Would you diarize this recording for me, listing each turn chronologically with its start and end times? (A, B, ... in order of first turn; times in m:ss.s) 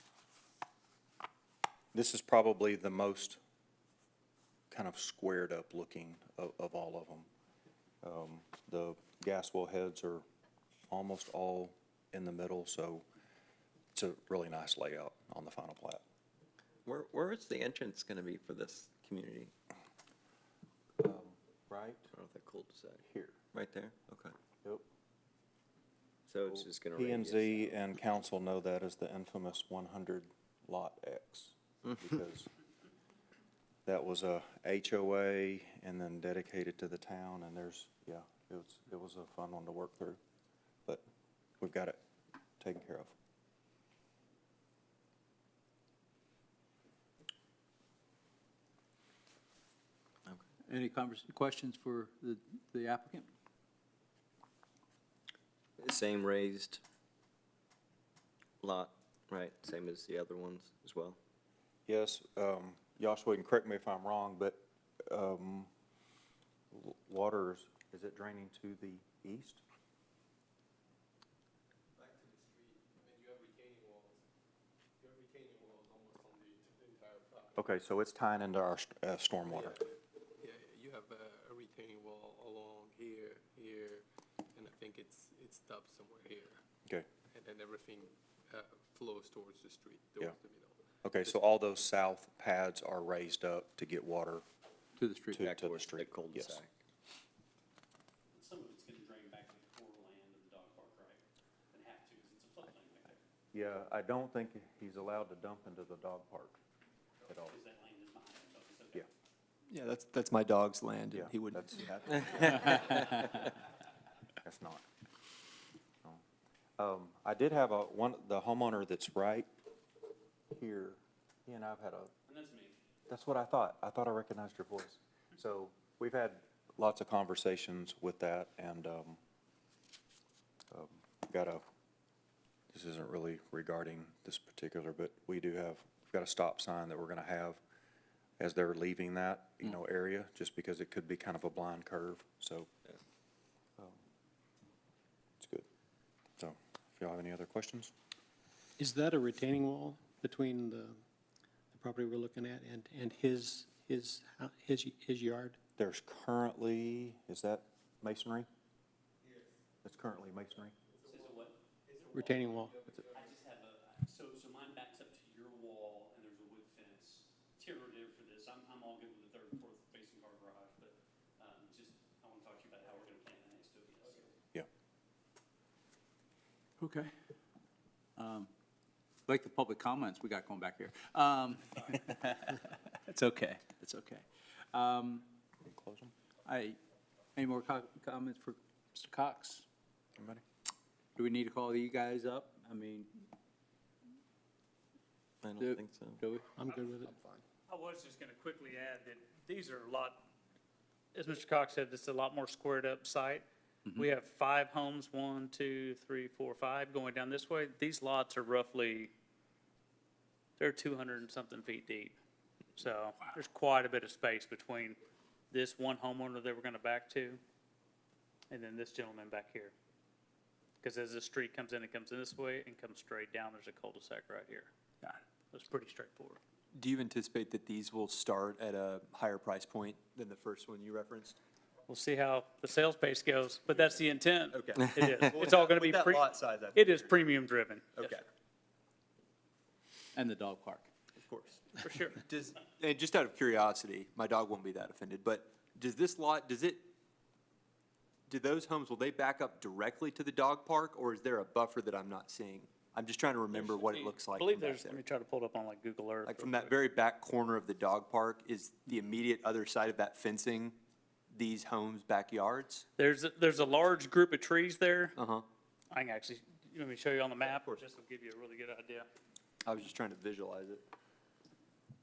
0:01.9-0:03.4 A
0:04.7-0:07.3 A
0:08.0-0:10.2 A
0:10.9-0:13.0 A
0:14.0-0:16.0 A
0:16.8-0:19.5 B
0:21.0-0:22.1 A
0:22.1-0:23.0 B
0:23.0-0:23.4 A
0:23.5-0:24.3 B
0:26.3-0:27.8 B
0:26.4-0:32.5 A
0:33.9-0:40.2 A
0:41.6-0:42.0 A
0:42.6-0:43.1 A
0:50.6-0:53.3 C
0:55.8-0:56.8 B
0:58.6-1:01.2 B
1:01.9-1:05.7 A
1:06.7-1:09.6 A
1:12.0-1:14.2 D
1:15.0-1:17.7 D
1:17.6-1:19.8 A
1:19.5-1:19.8 D
1:20.4-1:24.0 D
1:24.6-1:26.6 D
1:27.3-1:31.5 D
1:31.0-1:34.4 A
1:35.0-1:35.4 C
1:35.3-1:36.6 A
1:35.4-1:36.7 B
1:38.3-1:43.2 E
1:43.5-1:46.6 A
1:47.3-1:47.6 A
1:47.5-1:49.0 E
1:49.7-1:52.5 F
1:51.1-1:53.5 A
1:54.4-1:54.8 A
1:56.8-1:59.5 A
2:00.5-2:02.1 A
2:02.3-2:02.8 E
2:03.1-2:09.2 A
2:10.7-2:11.6 A
2:12.7-2:17.6 A
2:18.4-2:22.7 A
2:25.4-2:25.7 A
2:26.4-2:27.9 A
2:28.8-2:31.0 G
2:31.7-2:35.6 G
2:35.8-2:38.5 A
2:39.2-2:39.6 D
2:39.8-2:40.8 A
2:40.9-2:43.4 D
2:41.1-2:41.6 E
2:42.1-2:42.8 G
2:43.1-2:54.3 E
2:56.8-2:57.1 C
2:58.2-2:58.5 C
2:59.3-3:05.3 C
3:05.6-3:06.1 A
3:06.4-3:06.8 C
3:07.4-3:09.6 C
3:10.2-3:10.4 A
3:11.2-3:13.3 C
3:15.4-3:16.2 B
3:15.6-3:16.5 C
3:16.6-3:17.2 G
3:16.7-3:17.4 D
3:17.7-3:20.2 H
3:21.2-3:29.1 H
3:30.6-3:32.2 H
3:32.8-3:35.0 H
3:35.5-3:37.4 H
3:38.5-3:39.7 H
3:40.8-3:46.4 H
3:46.7-3:51.4 F
3:51.9-3:58.2 H
3:54.5-3:57.1 F
3:58.0-3:58.2 F
4:00.2-4:00.9 C
4:01.2-4:06.9 F
4:01.8-4:02.2 H
4:08.3-4:15.0 F
4:13.5-4:16.7 H
4:16.2-4:20.8 F
4:21.3-4:22.8 F
4:23.0-4:25.2 H
4:25.2-4:25.4 F
4:25.9-4:29.1 H
4:27.4-4:27.8 F
4:29.6-4:30.8 F